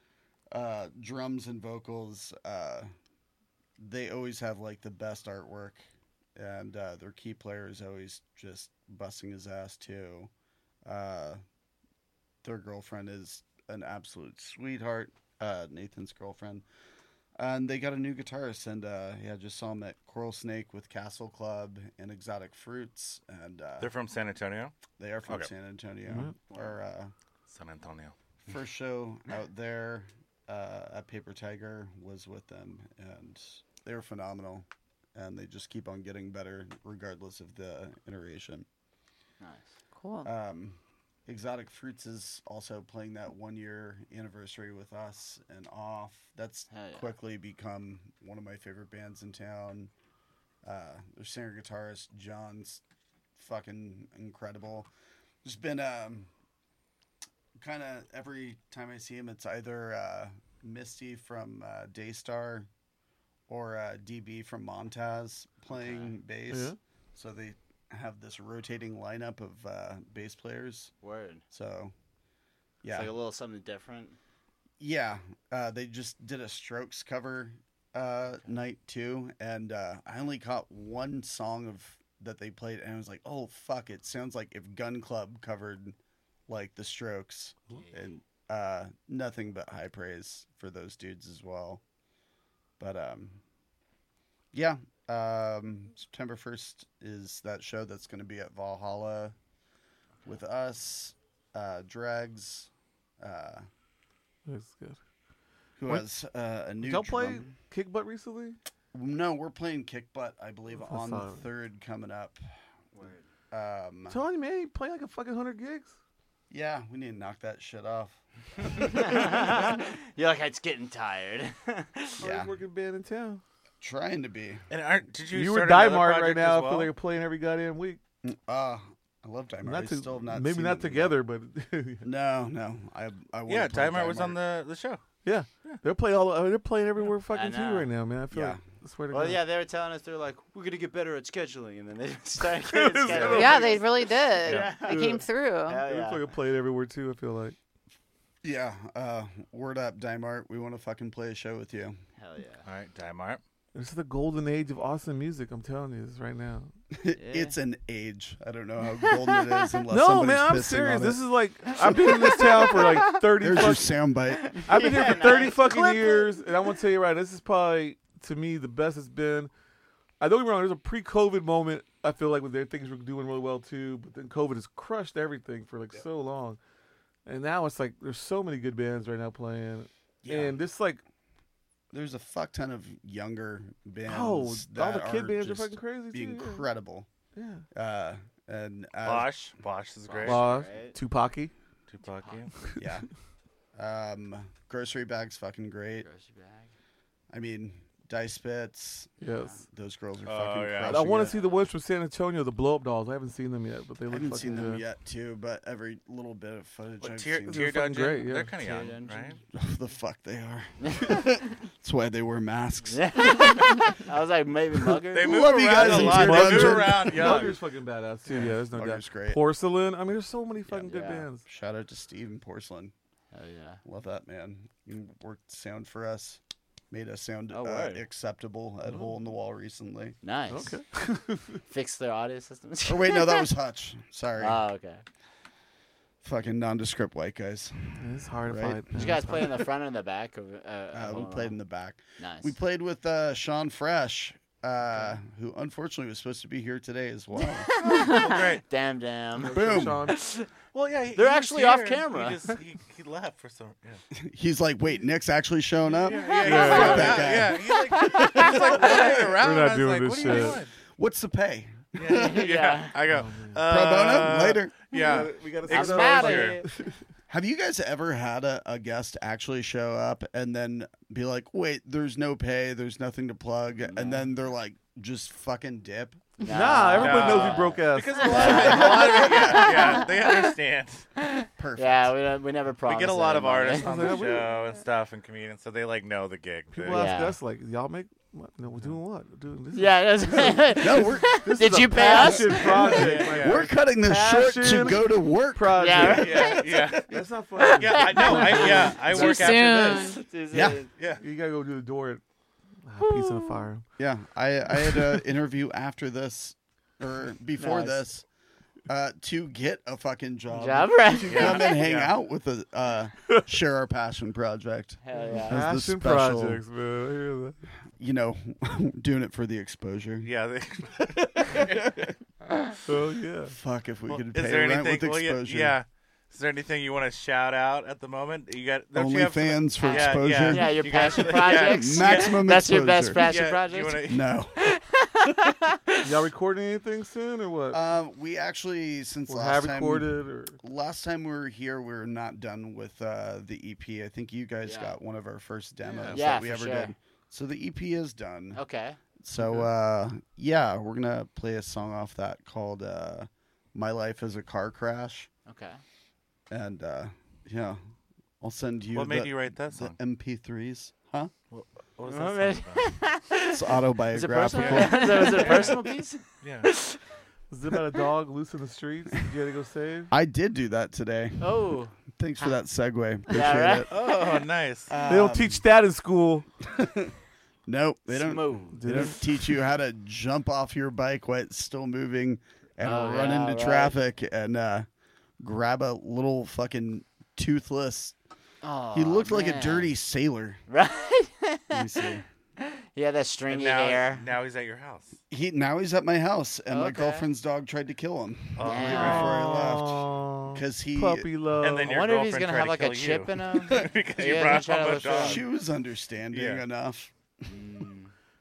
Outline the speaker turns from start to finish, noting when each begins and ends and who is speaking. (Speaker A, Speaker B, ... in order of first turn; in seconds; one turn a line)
Speaker A: 0.5-2.9
Speaker A: 3.8-5.8
Speaker A: 6.4-10.3
Speaker A: 10.8-11.4
Speaker A: 12.4-16.6
Speaker A: 17.4-23.9
Speaker B: 23.8-25.5
Speaker A: 24.9-27.1
Speaker C: 26.1-26.3
Speaker B: 27.5-28.1
Speaker A: 28.4-38.6
Speaker D: 39.4-39.8
Speaker E: 40.0-40.3
Speaker A: 40.2-49.9
Speaker D: 46.7-47.1
Speaker A: 50.6-52.8
Speaker A: 53.4-54.9
Speaker A: 55.4-56.3
Speaker A: 57.6-62.7
Speaker A: 63.5-70.9
Speaker D: 65.7-66.1
Speaker C: 66.5-66.8
Speaker D: 71.0-71.4
Speaker A: 71.5-71.9
Speaker A: 72.8-73.1
Speaker D: 72.9-74.2
Speaker A: 74.8-86.0
Speaker A: 86.5-91.8
Speaker A: 92.8-93.4
Speaker A: 94.5-99.3
Speaker A: 100.2-103.7
Speaker C: 104.5-105.0
Speaker A: 105.8-107.5
Speaker C: 106.8-108.6
Speaker A: 108.9-112.4
Speaker C: 110.7-111.4
Speaker D: 112.9-113.2
Speaker A: 113.5-114.2
Speaker C: 114.1-115.9
Speaker A: 116.5-119.8
Speaker D: 118.7-122.2
Speaker A: 122.2-122.5
Speaker C: 122.2-123.4
Speaker A: 123.8-124.7
Speaker B: 124.7-126.9
Speaker C: 125.3-128.0
Speaker A: 128.2-131.2
Speaker C: 129.6-132.1
Speaker A: 132.0-134.4
Speaker B: 133.5-135.0
Speaker C: 135.2-139.4
Speaker D: 137.3-137.9
Speaker A: 138.3-138.6
Speaker D: 139.1-143.8
Speaker C: 142.6-143.8
Speaker E: 143.3-145.8
Speaker D: 144.4-146.3
Speaker B: 144.4-144.7
Speaker C: 144.8-145.2
Speaker C: 145.8-147.6
Speaker A: 148.4-151.9
Speaker D: 152.2-152.6
Speaker B: 152.6-153.4
Speaker C: 153.7-156.7
Speaker A: 156.9-161.2
Speaker D: 157.2-157.5
Speaker D: 159.0-159.6
Speaker C: 159.9-163.9
Speaker D: 162.0-163.7
Speaker A: 163.3-165.1
Speaker D: 164.3-166.4
Speaker C: 164.7-169.5
Speaker C: 170.2-176.6
Speaker C: 177.2-181.0
Speaker A: 180.2-180.5
Speaker A: 181.9-187.1
Speaker C: 184.1-186.7
Speaker C: 187.3-187.6
Speaker A: 187.7-189.3
Speaker B: 189.0-190.4
Speaker D: 190.1-190.9
Speaker C: 190.2-191.5
Speaker B: 191.9-192.5
Speaker D: 192.1-192.5
Speaker A: 192.8-193.1
Speaker A: 193.7-196.1
Speaker D: 196.0-196.7
Speaker A: 197.3-199.1
Speaker C: 199.2-199.6
Speaker A: 199.7-201.3
Speaker B: 200.2-201.1
Speaker C: 200.9-204.8
Speaker D: 201.3-201.6
Speaker A: 204.1-207.7
Speaker B: 207.0-209.4
Speaker C: 207.5-208.5
Speaker D: 208.6-209.3
Speaker A: 209.5-213.8
Speaker D: 212.9-215.5
Speaker A: 214.9-217.6
Speaker B: 215.1-217.6
Speaker C: 215.8-221.4
Speaker A: 218.3-219.4
Speaker D: 220.7-221.2
Speaker A: 221.4-222.9
Speaker D: 223.3-223.8
Speaker A: 223.8-230.2
Speaker D: 227.5-228.0
Speaker D: 230.2-230.8
Speaker C: 230.5-231.6
Speaker D: 231.7-233.5
Speaker A: 232.8-234.6
Speaker D: 234.4-235.0
Speaker A: 236.2-238.8
Speaker C: 238.0-239.6
Speaker D: 238.9-241.6
Speaker A: 240.9-247.7
Speaker D: 242.2-242.5
Speaker D: 247.5-250.5
Speaker E: 247.8-248.2
Speaker B: 247.8-248.6
Speaker C: 249.4-250.2
Speaker A: 249.5-250.1
Speaker B: 250.7-254.0
Speaker D: 251.1-252.6
Speaker A: 254.1-259.4
Speaker B: 255.9-260.7
Speaker C: 256.4-257.3
Speaker D: 256.6-258.9
Speaker C: 259.4-260.6
Speaker A: 260.3-262.4
Speaker B: 261.9-266.6
Speaker D: 262.0-262.9
Speaker C: 263.1-263.6
Speaker A: 263.6-264.9
Speaker D: 265.0-266.6
Speaker C: 265.0-266.9
Speaker A: 267.3-276.3
Speaker D: 273.9-274.2
Speaker D: 276.4-280.5
Speaker C: 276.4-278.7
Speaker B: 277.0-281.1
Speaker A: 278.3-279.1
Speaker D: 281.2-284.1
Speaker A: 281.6-282.1
Speaker B: 282.9-287.1
Speaker C: 283.8-284.5
Speaker C: 286.7-296.4
Speaker D: 286.9-287.4
Speaker D: 289.7-293.1
Speaker A: 290.8-297.2
Speaker B: 292.8-293.7
Speaker D: 295.8-296.7
Speaker B: 296.1-297.1
Speaker C: 297.1-299.6
Speaker D: 297.6-300.9
Speaker B: 297.8-300.1
Speaker E: 298.2-300.2
Speaker A: 300.5-300.8
Speaker C: 301.2-302.2
Speaker C: 302.8-303.8
Speaker D: 303.0-303.6
Speaker A: 304.0-308.2
Speaker C: 304.8-305.2
Speaker D: 307.6-308.0
Speaker A: 308.9-316.6
Speaker D: 310.5-311.7
Speaker B: 311.3-312.1
Speaker D: 315.0-315.6
Speaker C: 315.3-317.6
Speaker A: 317.9-320.3
Speaker B: 320.2-322.0
Speaker A: 321.5-322.1
Speaker C: 322.9-323.6
Speaker A: 323.5-325.7
Speaker B: 324.1-332.4
Speaker A: 328.9-333.3
Speaker D: 329.8-336.0
Speaker B: 333.1-334.3
Speaker A: 334.0-334.7
Speaker C: 336.0-337.8
Speaker A: 337.7-348.6
Speaker C: 339.3-340.6
Speaker D: 344.6-344.9
Speaker B: 345.9-346.2
Speaker D: 346.1-346.9
Speaker D: 348.6-349.0
Speaker A: 349.2-355.3
Speaker D: 355.4-355.8
Speaker A: 356.5-357.8
Speaker A: 358.4-361.3
Speaker B: 358.9-359.9
Speaker B: 361.5-362.9
Speaker D: 362.1-367.0
Speaker A: 363.5-365.8
Speaker B: 364.5-365.8
Speaker B: 366.4-366.7
Speaker C: 367.5-370.1
Speaker A: 370.1-371.5
Speaker D: 371.4-372.5
Speaker A: 372.1-373.9
Speaker D: 373.3-374.4
Speaker B: 373.9-374.9
Speaker A: 374.9-375.6
Speaker C: 375.1-376.4
Speaker A: 376.6-377.1
Speaker A: 377.6-384.9
Speaker D: 378.1-379.1
Speaker C: 378.7-379.2
Speaker D: 382.8-383.9
Speaker A: 385.4-388.1
Speaker D: 388.6-389.9
Speaker A: 388.9-390.6
Speaker D: 390.7-394.3
Speaker A: 391.7-392.2
Speaker B: 393.5-395.2
Speaker A: 395.3-401.3
Speaker D: 396.7-397.3
Speaker B: 398.6-399.4
Speaker D: 398.6-399.4
Speaker C: 398.9-401.9
Speaker B: 401.6-405.4
Speaker D: 401.8-405.4
Speaker A: 405.0-407.1
Speaker B: 406.3-406.6
Speaker D: 407.4-408.1